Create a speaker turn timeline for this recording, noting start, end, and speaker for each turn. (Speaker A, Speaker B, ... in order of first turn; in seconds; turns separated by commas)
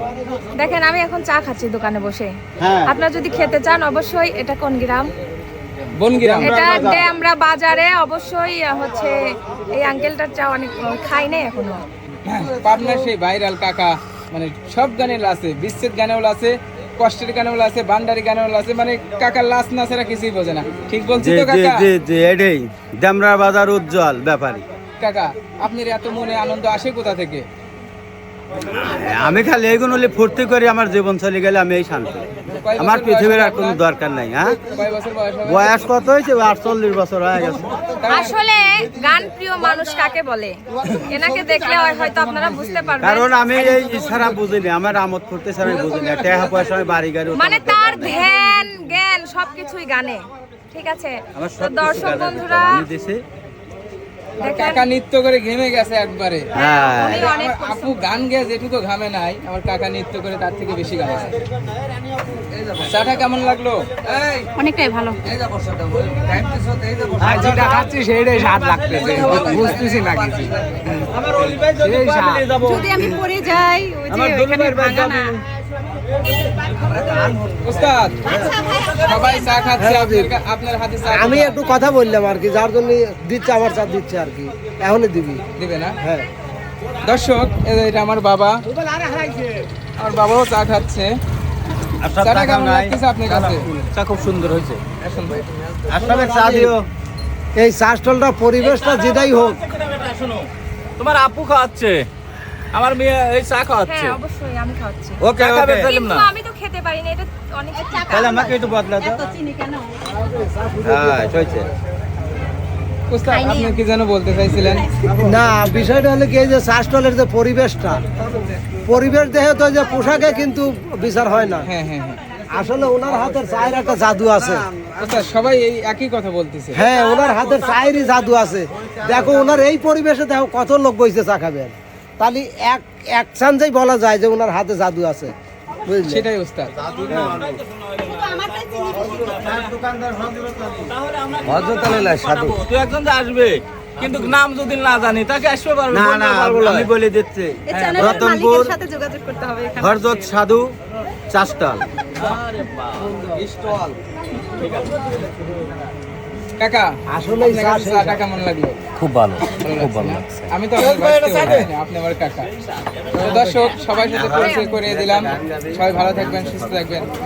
Speaker A: 0.5-2.3, Speaker B: 2.6-2.9, Speaker A: 2.9-5.1, Speaker C: 6.0-6.6, Speaker B: 6.1-7.1, Speaker A: 6.4-9.2, Speaker A: 9.7-11.8, Speaker C: 12.2-21.8, Speaker B: 21.2-24.6, Speaker C: 25.0-27.4, Speaker B: 28.7-34.6, Speaker C: 32.5-33.8, Speaker C: 34.6-35.8, Speaker B: 35.5-37.8, Speaker C: 38.0-38.3, Speaker A: 38.0-43.9, Speaker B: 43.0-48.2, Speaker A: 47.4-52.9, Speaker B: 51.4-53.2, Speaker A: 54.4-54.9, Speaker C: 54.4-56.5, Speaker B: 56.5-57.3, Speaker A: 56.5-57.9, Speaker C: 57.1-61.4, Speaker C: 62.8-63.9, Speaker D: 65.5-67.7, Speaker E: 67.2-70.5, Speaker D: 68.9-70.4, Speaker D: 71.1-73.1, Speaker E: 71.8-72.5, Speaker D: 74.1-75.3, Speaker A: 74.1-75.4, Speaker D: 76.9-77.3, Speaker C: 77.6-78.4, Speaker C: 79.0-81.6, Speaker E: 79.8-80.3, Speaker E: 81.1-85.4, Speaker C: 85.6-86.0, Speaker C: 87.0-88.6, Speaker E: 88.7-89.5, Speaker C: 90.0-91.1, Speaker B: 92.0-94.8, Speaker C: 92.2-93.7, Speaker C: 95.0-95.4, Speaker B: 95.9-96.9, Speaker E: 96.0-96.7, Speaker E: 97.6-99.6, Speaker D: 99.8-100.5, Speaker D: 101.0-102.0, Speaker D: 102.7-104.2, Speaker A: 103.8-105.2, Speaker B: 105.2-106.0, Speaker D: 105.2-106.3, Speaker A: 105.8-108.4, Speaker B: 108.0-109.2, Speaker E: 110.2-111.3, Speaker B: 110.8-111.7, Speaker C: 113.1-114.9, Speaker E: 115.1-118.0, Speaker E: 118.8-121.7, Speaker C: 121.6-122.2, Speaker E: 122.5-124.7, Speaker C: 125.0-126.8, Speaker E: 126.7-135.3, Speaker E: 135.8-136.2, Speaker C: 136.0-136.7, Speaker B: 136.8-137.5, Speaker D: 137.0-139.6, Speaker E: 137.1-137.5, Speaker B: 139.2-140.9, Speaker D: 141.1-146.9, Speaker B: 141.5-142.6, Speaker B: 145.9-148.7, Speaker D: 147.7-148.3, Speaker B: 149.8-150.7, Speaker B: 151.3-151.8, Speaker C: 156.6-156.9, Speaker E: 157.1-158.2, Speaker C: 157.4-158.8, Speaker D: 159.0-160.5, Speaker C: 159.6-162.5, Speaker B: 160.8-161.6, Speaker C: 163.2-167.1, Speaker B: 163.2-163.4, Speaker A: 164.1-164.8, Speaker B: 164.1-166.0